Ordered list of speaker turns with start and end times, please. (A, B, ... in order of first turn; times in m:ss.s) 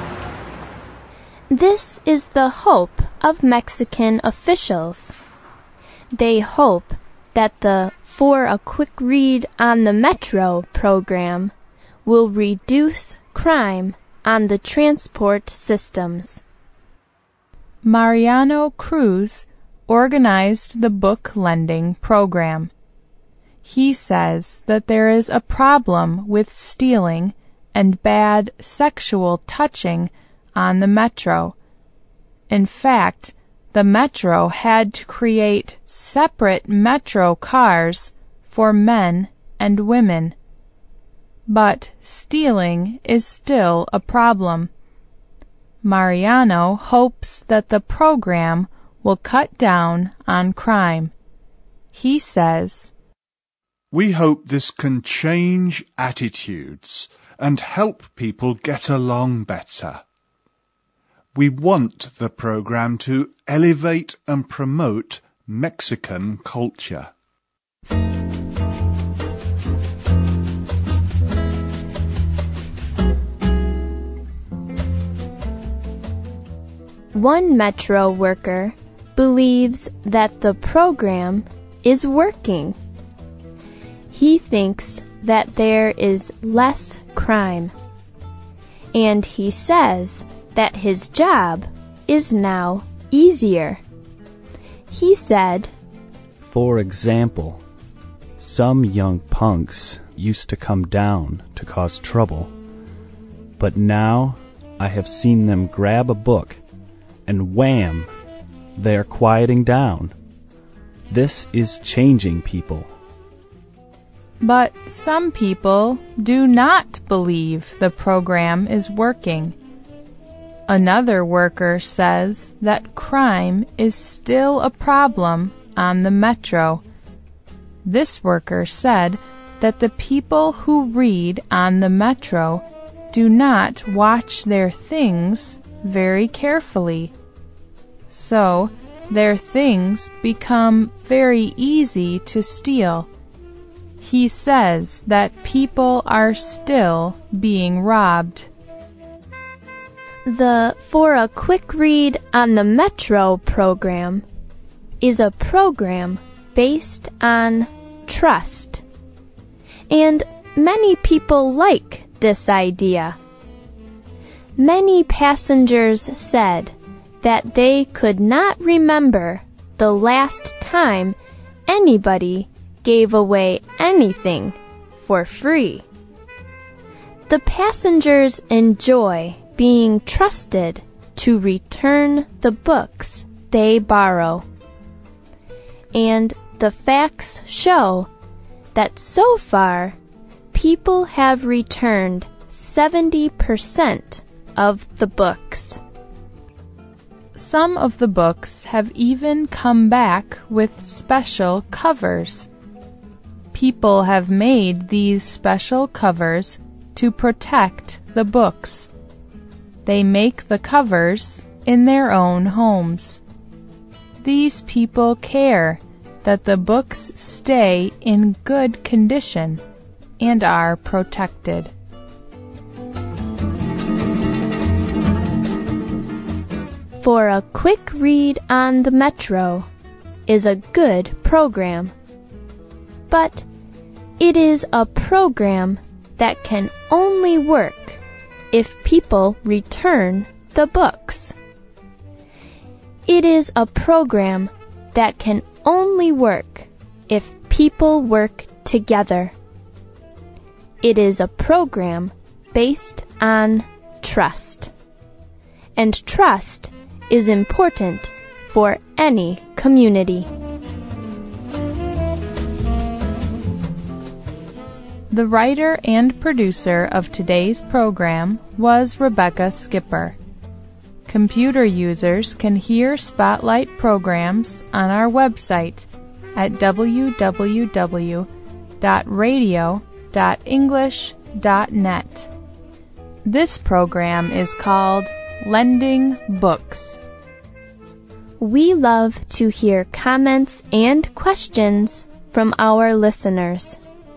0:01.5-0:05.1 A
0:06.1-0:11.5 A
0:12.0-0:16.4 A
0:17.8-0:22.7 B
0:23.6-0:31.5 B
0:32.5-0:40.3 B
0:41.5-0:44.7 B
0:45.8-0:51.1 B
0:51.9-0:52.9 B
0:53.9-1:00.0 C
1:01.3-1:07.1 C
1:17.1-1:22.8 A
1:24.1-1:27.7 A
1:28.9-1:33.8 A
1:34.9-1:35.7 A
1:36.4-1:37.6 D
1:38.4-1:42.5 D
1:43.6-1:46.6 D
1:47.2-1:48.1 D
1:48.8-1:50.1 D
1:51.1-1:52.9 D
1:54.4-1:59.5 B
2:00.7-2:06.8 B
2:07.8-2:17.1 B
2:18.1-2:23.1 B
2:24.0-2:28.5 B
2:30.2-2:34.2 A
2:35.0-2:38.8 A
2:39.9-2:43.2 A
2:44.6-2:51.2 A
2:51.7-2:55.8 A
2:57.3-3:04.4 A
3:05.9-3:08.1 A
3:08.7-3:10.0 A
3:10.5-3:15.8 A
3:17.4-3:22.5 B
3:23.5-3:28.9 B
3:29.8-3:33.2 B
3:34.2-3:39.6 B
3:40.2-3:41.7 B
3:47.0-3:49.7 A
3:50.3-3:51.9 A
3:53.1-3:53.4 A
3:54.2-3:58.0 A
3:58.5-4:01.3 A
4:03.1-4:09.3 A
4:10.8-4:14.7 A
4:15.8-4:20.3 A
4:25.1-4:30.2 B
4:31.1-4:38.3 B
4:38.8-4:42.3 B
4:43.2-4:47.0 B
4:48.4-4:53.8 A